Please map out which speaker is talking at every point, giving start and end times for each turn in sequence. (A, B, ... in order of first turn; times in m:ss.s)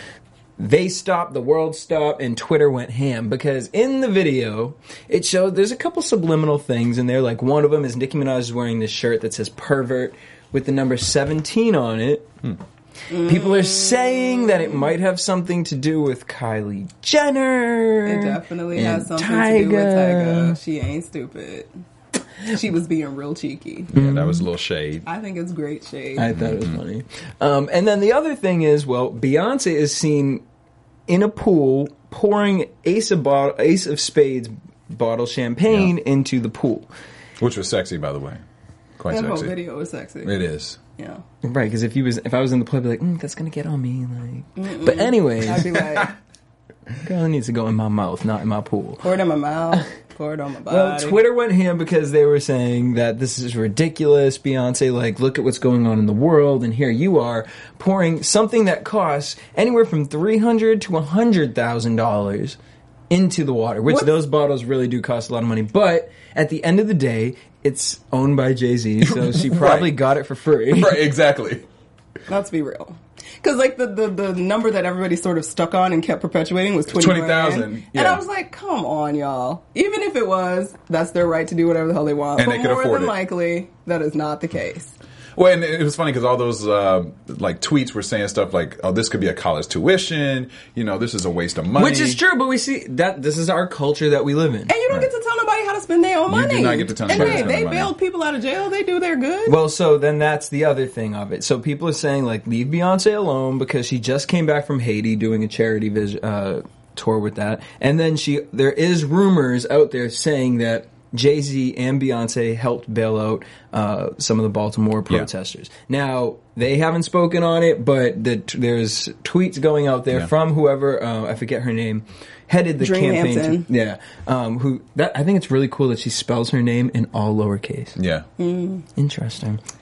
0:00.6-0:12.4 A
0:13.1-0:14.9 B
0:13.2-0:20.6 A
0:18.0-0:21.7 B
0:22.4-0:23.9 B
0:23.9-0:25.0 C
0:23.9-0:24.4 A
0:25.0-0:26.3 B
0:26.2-0:30.4 A
0:26.3-0:26.8 C
0:31.1-0:36.9 A
0:37.4-0:38.4 C
0:39.0-0:39.5 C
0:39.1-0:40.4 B
0:40.2-0:40.8 C
0:41.0-0:41.2 B
0:41.4-0:45.9 A
0:44.6-0:46.1 B
0:47.0-0:49.0 A
0:49.0-0:51.2 B
0:50.7-1:02.6 A
1:03.1-1:11.1 A
1:09.0-1:09.9 C
1:10.8-1:11.6 C
1:12.3-1:24.9 B
1:16.9-1:18.2 C
1:22.4-1:23.1 C
1:25.3-1:32.2 C
1:31.7-1:34.7 A
1:34.7-1:39.6 B
1:36.3-1:37.9 C
1:37.1-1:37.5 A
1:39.4-2:08.0 A
2:02.8-2:03.7 B
2:08.0-2:08.3 C
2:08.4-2:08.8 B
2:09.0-2:09.6 A